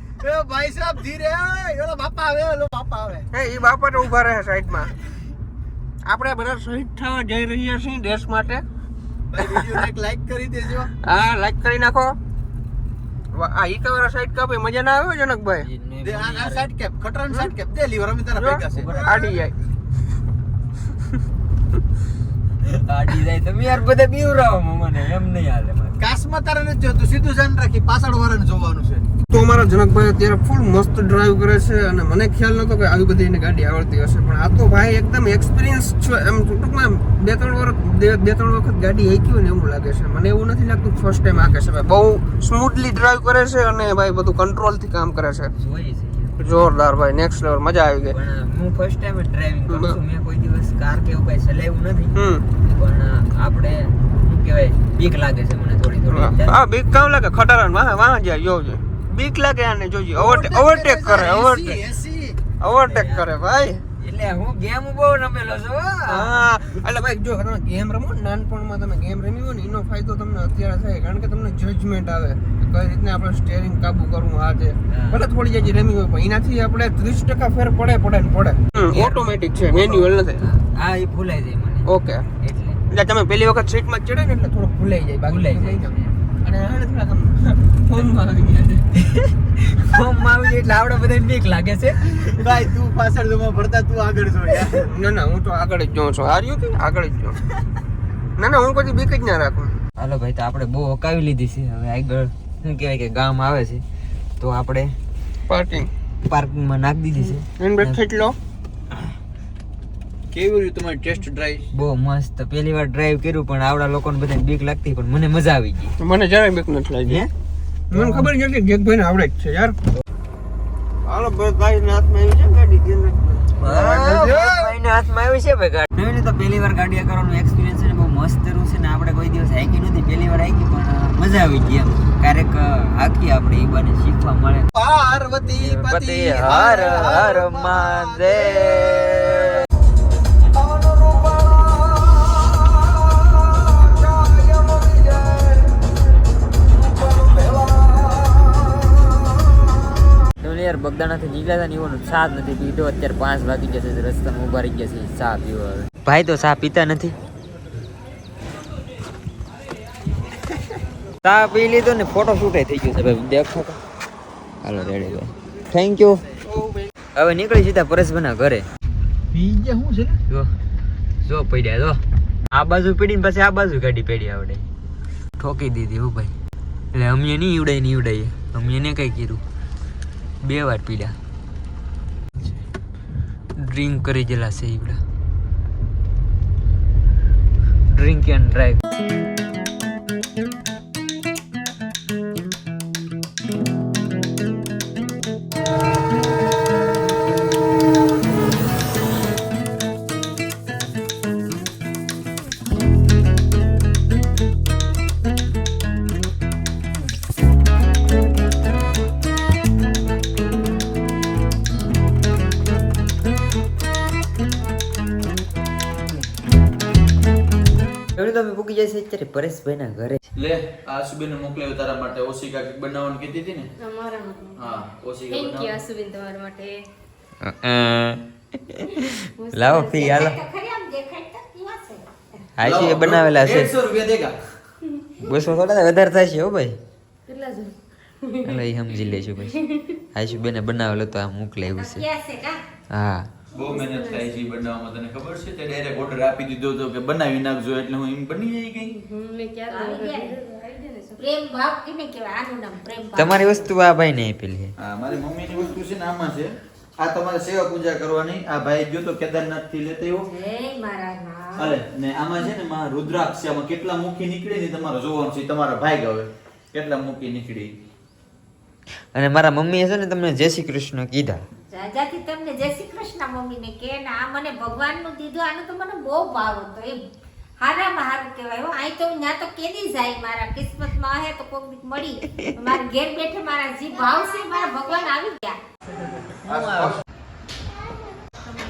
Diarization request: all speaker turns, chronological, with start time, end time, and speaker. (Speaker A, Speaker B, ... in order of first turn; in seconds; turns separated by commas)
Speaker A: 0.2-3.3, Speaker B: 3.3-4.9, Speaker B: 6.0-8.6, Speaker A: 9.3-10.9, Speaker B: 9.4-9.8, Speaker B: 11.0-12.1, Speaker B: 13.3-15.7, Speaker C: 15.6-16.7, Speaker A: 16.0-19.1, Speaker B: 18.3-19.5, Speaker C: 18.7-19.3, Speaker C: 22.9-25.9, Speaker A: 26.0-29.0, Speaker B: 29.3-45.5, Speaker C: 45.6-46.6, Speaker B: 46.4-48.1, Speaker C: 48.1-52.2, Speaker B: 49.7-50.0, Speaker B: 52.1-52.4, Speaker C: 52.7-56.6, Speaker B: 56.1-61.8, Speaker A: 60.1-62.4, Speaker B: 62.6-63.8, Speaker C: 62.8-63.3, Speaker C: 64.0-66.4, Speaker B: 66.1-80.4, Speaker C: 74.9-75.2, Speaker C: 78.8-82.8, Speaker B: 81.8-82.2, Speaker B: 82.9-88.8, Speaker C: 85.2-86.1, Speaker C: 89.0-92.5, Speaker A: 92.4-94.9, Speaker B: 94.9-97.4, Speaker B: 98.4-99.7, Speaker C: 100.0-103.8, Speaker C: 104.4-104.9, Speaker B: 105.5-105.9, Speaker C: 106.2-108.0, Speaker B: 107.6-108.3, Speaker A: 110.3-111.7, Speaker C: 111.7-115.9, Speaker B: 116.0-117.2, Speaker B: 117.9-119.8, Speaker C: 117.9-118.3, Speaker B: 121.0-124.5, Speaker C: 123.6-134.7, Speaker A: 134.7-138.6, Speaker C: 135.6-139.5, Speaker A: 140.6-141.7, Speaker A: 143.6-145.5, Speaker A: 147.1-147.9, Speaker C: 150.4-157.2, Speaker C: 161.2-163.8, Speaker C: 164.6-166.2, Speaker B: 166.4-166.9, Speaker C: 167.2-168.7, Speaker A: 169.3-170.2, Speaker C: 171.2-172.0, Speaker C: 172.5-174.7, Speaker C: 175.4-176.3, Speaker C: 176.9-179.4, Speaker C: 180.4-181.2, Speaker C: 183.6-185.0, Speaker C: 187.9-188.8, Speaker C: 218.2-220.2, Speaker A: 220.4-223.7, Speaker D: 223.8-224.6, Speaker A: 224.6-225.8, Speaker D: 225.3-226.8, Speaker C: 227.4-230.4, Speaker D: 229.4-230.1, Speaker E: 229.8-232.0, Speaker C: 232.6-233.7, Speaker A: 232.6-234.3, Speaker C: 235.2-236.8, Speaker D: 237.3-237.7, Speaker C: 238.4-239.6, Speaker C: 240.1-242.0, Speaker E: 241.8-242.6, Speaker C: 242.9-243.3, Speaker A: 243.5-248.9, Speaker D: 243.7-244.3, Speaker D: 248.9-251.2, Speaker E: 249.7-250.4, Speaker E: 251.2-253.7, Speaker C: 253.2-254.7, Speaker A: 254.8-260.3, Speaker E: 260.2-261.8, Speaker A: 261.6-267.7, Speaker C: 269.1-271.4, Speaker E: 271.7-277.0, Speaker E: 277.6-285.6, Speaker A: 286.5-287.0